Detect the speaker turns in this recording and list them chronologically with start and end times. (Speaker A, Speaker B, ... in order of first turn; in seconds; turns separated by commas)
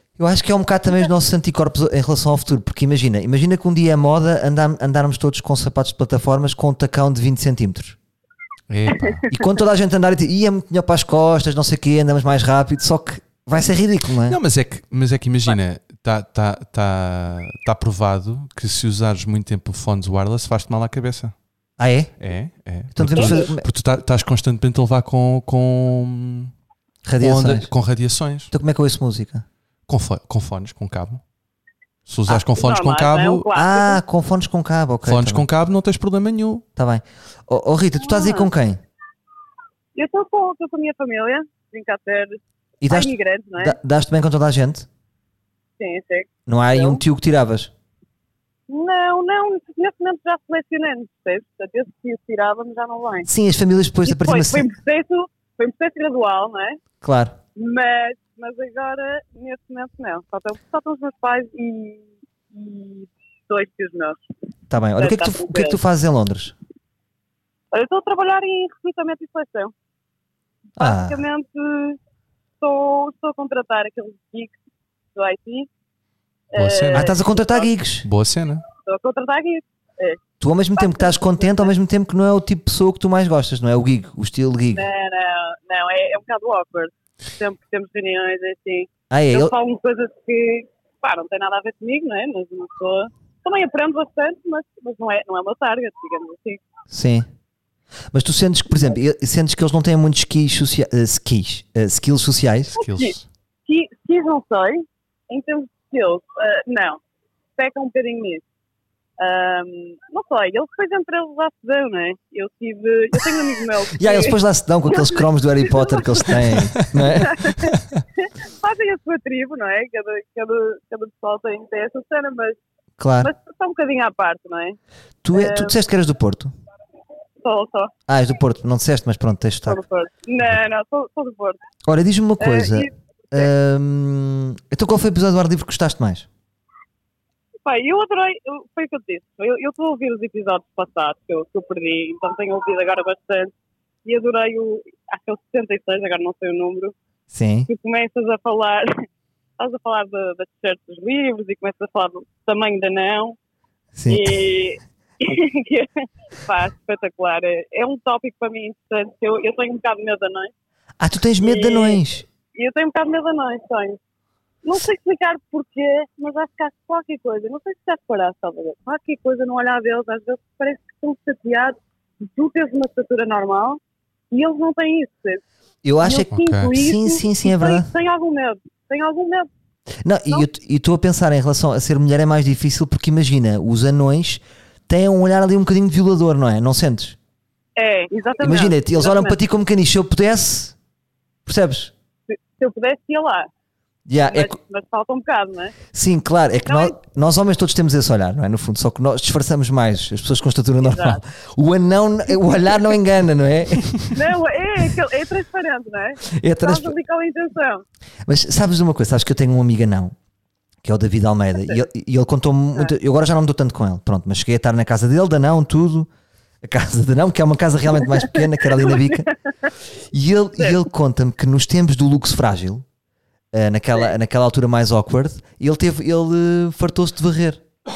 Speaker A: 0.2-8.0, Speaker B: 8.7-9.3, Speaker A: 9.3-14.4, Speaker B: 14.3-21.3, Speaker A: 21.8-22.1, Speaker B: 22.2-26.5, Speaker A: 22.9-23.6, Speaker C: 23.1-23.5, Speaker A: 27.0-27.7, Speaker B: 27.2-28.5, Speaker A: 28.5-29.4, Speaker B: 29.9-31.2, Speaker B: 32.1-33.5, Speaker C: 32.3-34.0, Speaker A: 33.5-35.5, Speaker B: 35.0-36.6, Speaker A: 36.8-38.8, Speaker C: 38.0-38.5, Speaker C: 39.9-43.8, Speaker A: 42.8-44.9, Speaker C: 45.8-47.0, Speaker A: 46.5-47.7, Speaker C: 48.7-53.3, Speaker A: 53.2-54.7, Speaker C: 54.0-56.8, Speaker A: 57.0-57.4, Speaker C: 57.5-64.2, Speaker A: 64.7-66.5, Speaker C: 65.0-65.8, Speaker C: 67.7-69.7, Speaker A: 70.8-71.2, Speaker C: 70.8-72.0, Speaker C: 72.6-74.5, Speaker C: 75.1-75.7, Speaker C: 76.5-77.7, Speaker B: 76.5-77.1, Speaker A: 76.9-78.1, Speaker B: 78.0-78.6, Speaker C: 78.8-80.2, Speaker A: 80.4-84.9, Speaker C: 80.8-81.7, Speaker C: 84.7-96.6, Speaker A: 89.1-89.5, Speaker A: 96.9-97.3, Speaker A: 98.1-102.8, Speaker C: 102.8-107.0, Speaker B: 102.8-103.2, Speaker C: 107.6-108.4, Speaker C: 109.2-114.4, Speaker A: 113.9-117.5, Speaker C: 114.9-116.4, Speaker C: 117.2-122.6, Speaker A: 123.0-123.3, Speaker C: 123.2-124.8, Speaker A: 125.2-126.5, Speaker C: 125.3-125.8, Speaker C: 127.4-127.9, Speaker A: 128.1-129.8, Speaker C: 129.7-131.6, Speaker A: 131.8-136.3, Speaker C: 132.4-133.5, Speaker C: 137.6-143.5, Speaker C: 144.0-146.9, Speaker A: 147.3-147.7, Speaker C: 147.7-149.0, Speaker C: 149.6-153.4, Speaker A: 153.9-154.4, Speaker C: 154.1-160.5, Speaker A: 161.0-162.2, Speaker C: 161.4-162.0, Speaker C: 162.5-164.0, Speaker C: 164.6-173.8, Speaker C: 174.3-175.4, Speaker A: 175.8-177.9, Speaker C: 176.0-179.5, Speaker B: 176.3-176.7, Speaker A: 180.0-187.2, Speaker C: 187.8-189.4, Speaker A: 188.4-190.8, Speaker A: 191.4-191.9, Speaker C: 192.3-193.5, Speaker A: 194.1-194.6, Speaker C: 194.3-195.7, Speaker A: 195.9-204.1, Speaker C: 196.7-196.9, Speaker C: 200.8-201.2, Speaker C: 204.1-207.8, Speaker A: 206.3-206.9, Speaker A: 208.2-210.1, Speaker A: 210.8-216.1, Speaker A: 216.6-219.3, Speaker C: 218.0-219.3, Speaker A: 220.1-222.8, Speaker A: 223.5-227.6